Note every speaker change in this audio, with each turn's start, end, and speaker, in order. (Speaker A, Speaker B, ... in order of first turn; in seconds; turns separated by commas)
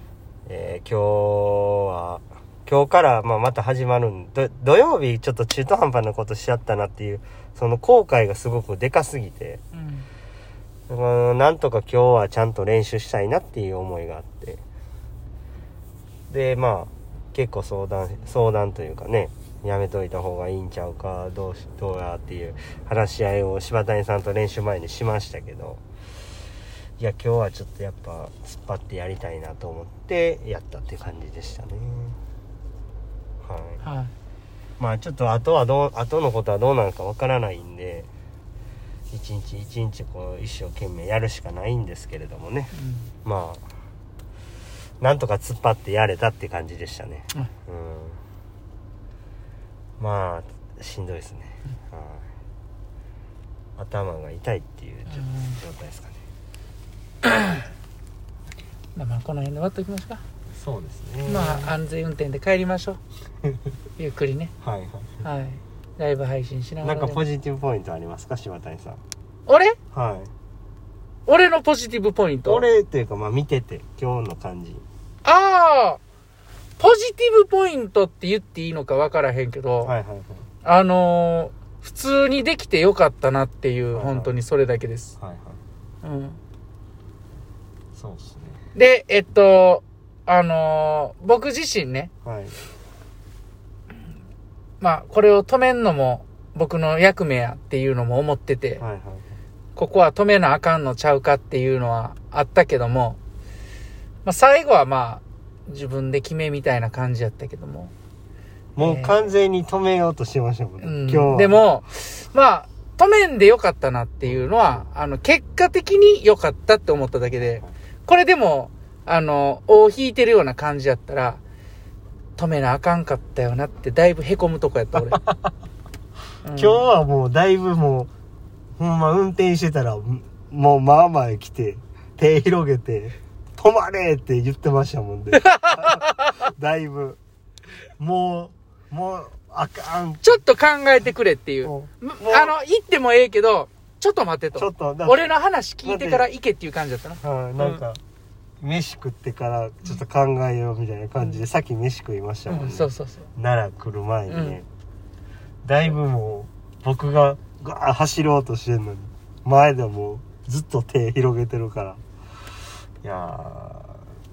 Speaker A: 0.5-9.6, Speaker B: 9.7-10.1, Speaker A: 10.9-14.6, Speaker A: 16.3-25.8, Speaker A: 27.0-32.2, Speaker A: 33.4-33.8, Speaker B: 33.8-34.1, Speaker A: 34.8-38.1, Speaker A: 39.1-42.7, Speaker B: 42.7-43.1, Speaker A: 43.2-43.6, Speaker A: 45.0-48.2, Speaker A: 50.0-52.2, Speaker A: 53.8-56.2, Speaker B: 55.1-55.6, Speaker B: 57.2-57.5, Speaker B: 58.9-60.2, Speaker A: 60.5-61.7, Speaker B: 61.2-63.0, Speaker B: 64.0-64.5, Speaker A: 64.6-65.2, Speaker B: 65.2-67.2, Speaker A: 66.8-69.0, Speaker B: 69.5-69.8, Speaker A: 69.9-70.3, Speaker B: 71.3-72.7, Speaker A: 72.4-74.8, Speaker B: 75.2-76.0, Speaker B: 76.8-79.9, Speaker A: 79.8-80.5, Speaker B: 80.6-85.2, Speaker A: 83.9-84.3, Speaker A: 85.2-85.6, Speaker B: 86.0-86.4, Speaker A: 87.9-88.6, Speaker B: 88.7-92.1, Speaker A: 92.2-92.7, Speaker B: 94.8-98.8, Speaker A: 98.8-99.2, Speaker B: 99.8-103.2, Speaker B: 104.2-107.9, Speaker A: 108.8-111.6, Speaker B: 108.8-109.3, Speaker B: 110.8-121.4, Speaker A: 114.2-114.9, Speaker A: 117.3-117.7, Speaker B: 122.4-125.2, Speaker A: 125.2-125.5, Speaker B: 126.4-126.9, Speaker A: 126.5-128.1, Speaker A: 128.8-137.2, Speaker B: 135.3-136.4, Speaker A: 138.0-140.4, Speaker B: 140.2-147.8, Speaker A: 141.6-142.5, Speaker A: 144.5-145.3, Speaker A: 145.8-146.2, Speaker A: 147.2-148.0, Speaker A: 148.6-154.7, Speaker B: 152.5-153.3, Speaker B: 154.3-154.6, Speaker A: 155.6-162.0, Speaker A: 163.0-164.0